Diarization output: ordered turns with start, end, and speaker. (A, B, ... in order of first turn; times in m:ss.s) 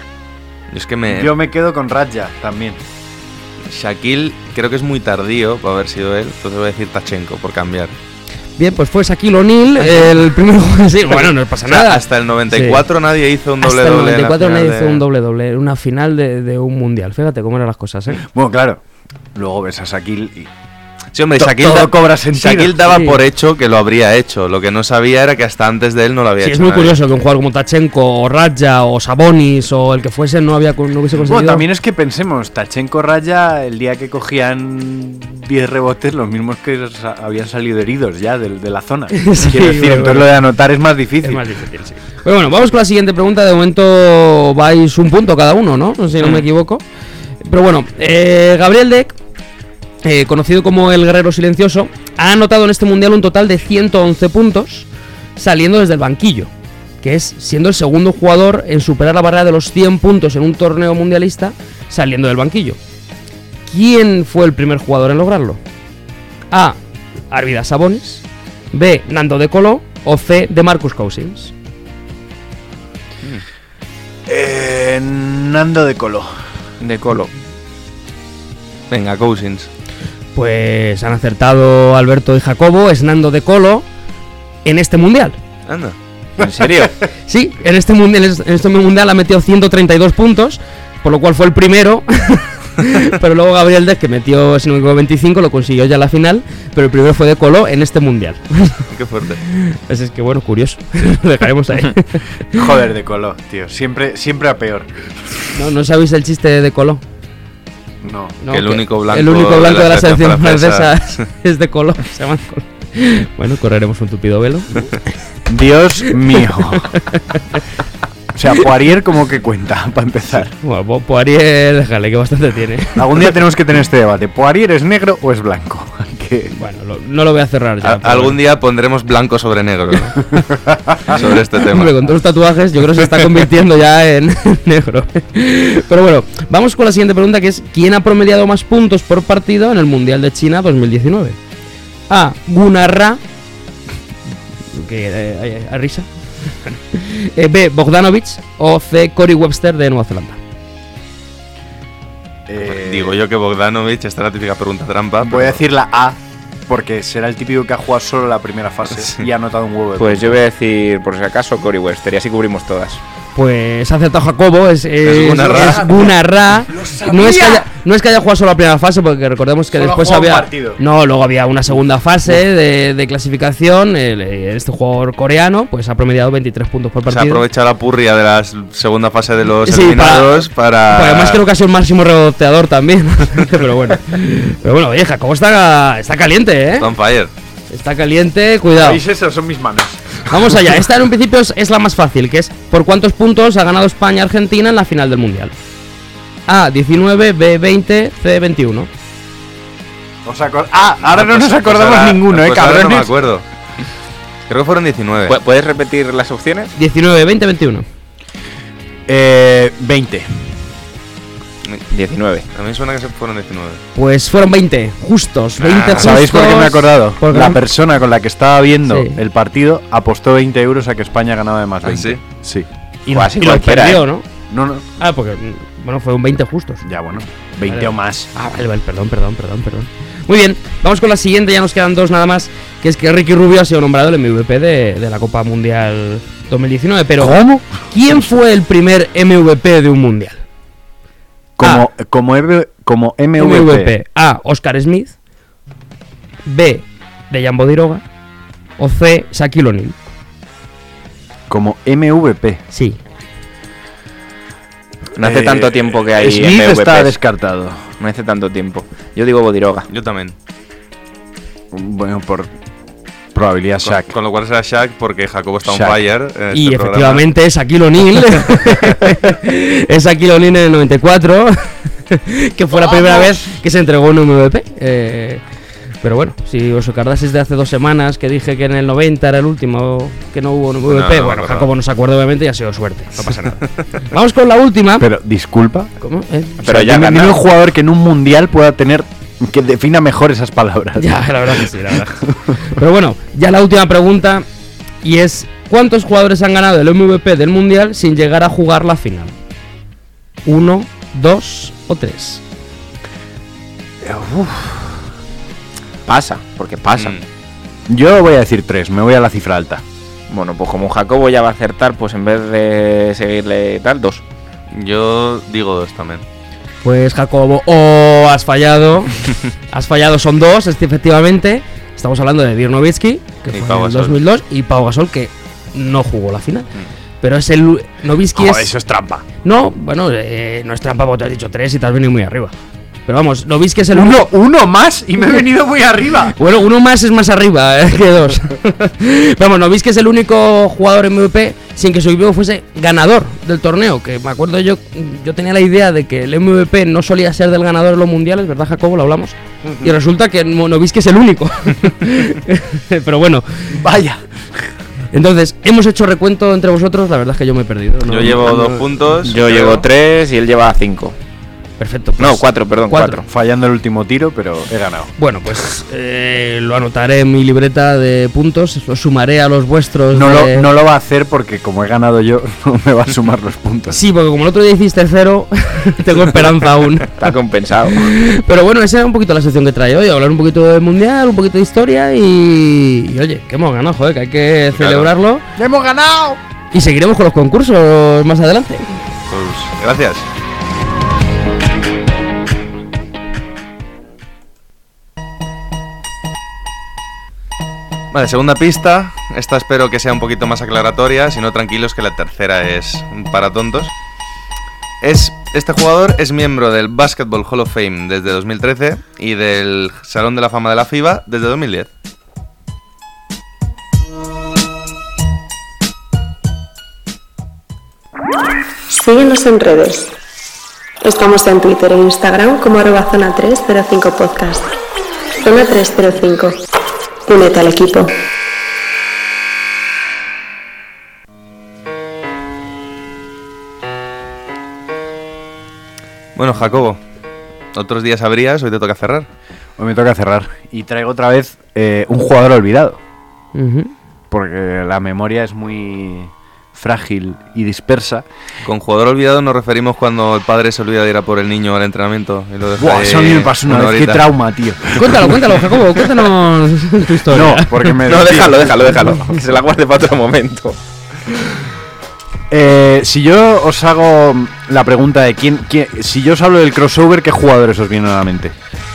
0:00.7-0:01.3 A
0:01.0-0:02.8 B
0:03.7-0:07.9 A
0:08.6-0:12.8 C
0:11.2-0:15.0 A
0:13.6-0:18.2 C
0:18.2-0:18.8 B
0:19.3-0:20.5 B
0:21.1-0:27.0 A
0:21.3-0:22.8 B
0:22.9-0:23.2 C
0:26.4-0:31.6 C
0:31.2-0:41.4 B
0:39.1-0:40.3 C
0:41.2-0:46.8 C
0:47.4-0:49.2 C
0:50.0-0:56.5 C
0:57.0-1:02.8 C
1:03.7-1:05.6 C
1:06.5-1:06.8 C
1:07.3-1:11.5 C
1:14.3-1:16.5 B
1:16.8-1:17.3 D
1:18.9-1:19.7 A
1:20.3-1:23.8 C
1:24.6-1:25.4 C
1:25.7-1:26.0 A
1:26.4-1:27.0 D
1:27.3-1:38.8 C
1:38.9-1:39.4 A
1:39.5-1:42.2 C
1:42.5-1:45.4 B
1:45.5-1:47.0 C
1:48.0-1:48.3 B
1:48.4-1:55.1 C
1:48.5-1:51.2 A
1:55.5-1:56.9 B
1:56.0-1:57.6 C
1:58.3-2:00.5 B
2:00.6-2:03.3 C
2:03.0-2:06.5 B
2:06.5-2:08.4 C
2:07.8-2:10.4 A
2:11.1-2:12.1 A
2:11.6-2:21.4 C
2:22.1-2:23.2 C
2:24.7-2:30.4 C
2:32.5-2:33.2 B
2:32.6-2:35.6 A
2:35.2-2:40.4 B
2:40.0-2:43.0 D
2:43.4-2:57.4 C
2:45.0-2:45.9 A
2:45.4-2:46.2 B
2:46.7-2:47.7 B
2:49.7-2:50.8 B
2:57.1-3:01.4 A
2:59.6-3:00.3 C
3:00.9-3:06.9 C
3:06.8-3:07.3 A
3:07.7-3:09.0 C
3:08.8-3:10.7 B
3:10.3-3:15.5 C
3:16.5-3:18.9 C
3:20.2-3:23.1 B
3:21.1-3:23.4 A
3:24.5-3:25.4 A
3:25.2-3:26.7 D
3:26.8-3:27.8 C
3:29.1-3:30.4 B
3:31.9-3:32.4 D
3:32.5-3:33.8 A
3:33.9-3:37.6 C
3:35.6-3:36.1 A
3:35.9-3:42.7 B
3:38.9-3:39.2 C
3:41.8-3:42.2 A
3:43.0-3:44.2 C
3:43.1-3:44.0 D
3:44.5-3:44.8 B
3:45.0-3:46.8 C
3:46.8-3:48.3 B
3:47.7-4:00.4 C
3:57.2-3:58.1 B
4:01.6-4:03.9 B
4:01.6-4:01.9 C
4:03.4-4:05.2 C
4:06.4-4:08.0 C
4:08.8-4:10.0 C
4:11.5-4:12.6 B
4:12.7-4:13.0 C
4:15.2-4:17.1 D
4:15.2-4:17.9 B
4:18.0-4:19.9 D
4:19.9-4:20.3 A
4:21.7-4:22.5 B
4:23.3-4:24.1 B
4:23.8-4:27.2 A
4:25.6-4:26.0 B
4:26.5-4:35.4 C
4:32.7-4:33.4 B
4:36.0-4:45.1 C
4:40.8-4:41.7 A
4:43.6-4:44.0 A
4:45.0-4:45.9 B
4:46.0-4:46.6 C
4:46.6-4:47.4 D
4:46.6-4:52.6 B
4:51.0-4:54.4 C
4:55.0-4:59.3 C
5:00.4-5:02.4 C
5:04.0-5:05.0 B
5:06.1-5:07.2 D
5:07.9-5:09.8 B
5:10.3-5:14.2 D
5:14.7-5:16.2 A
5:16.8-5:26.7 C
5:23.5-5:24.2 A
5:27.2-5:28.7 C
5:28.3-5:29.2 B
5:29.4-5:32.5 C
5:33.1-5:34.3 C
5:33.9-5:36.4 B
5:36.4-5:53.8 C
5:53.7-5:54.7 B
5:55.1-5:59.2 C
5:58.1-5:59.8 A
5:59.3-6:01.2 D
6:01.8-6:03.2 C
6:02.2-6:03.3 D
6:03.3-6:05.1 B
6:05.2-6:10.7 C
6:10.1-6:14.0 B
6:13.9-6:17.2 C
6:17.2-6:18.1 D
6:17.9-6:25.4 C
6:24.8-6:25.1 A
6:25.6-6:26.4 B
6:26.7-6:29.0 C
6:29.3-6:30.2 A
6:38.1-6:43.9 A
6:45.0-6:51.9 A
6:58.9-7:00.1 E
7:01.0-7:04.7 E
7:05.4-7:06.6 E
7:07.2-7:08.1 E
7:16.4-7:17.0 A
7:17.7-7:19.3 A
7:19.8-7:23.0 B
7:23.5-7:23.9 C
7:24.3-7:28.2 B
7:28.6-7:34.3 A
7:32.8-7:35.3 B
7:35.0-7:37.9 C
7:37.3-7:38.7 B
7:38.1-7:40.8 D
7:38.1-7:39.1 A
7:42.5-7:48.5 B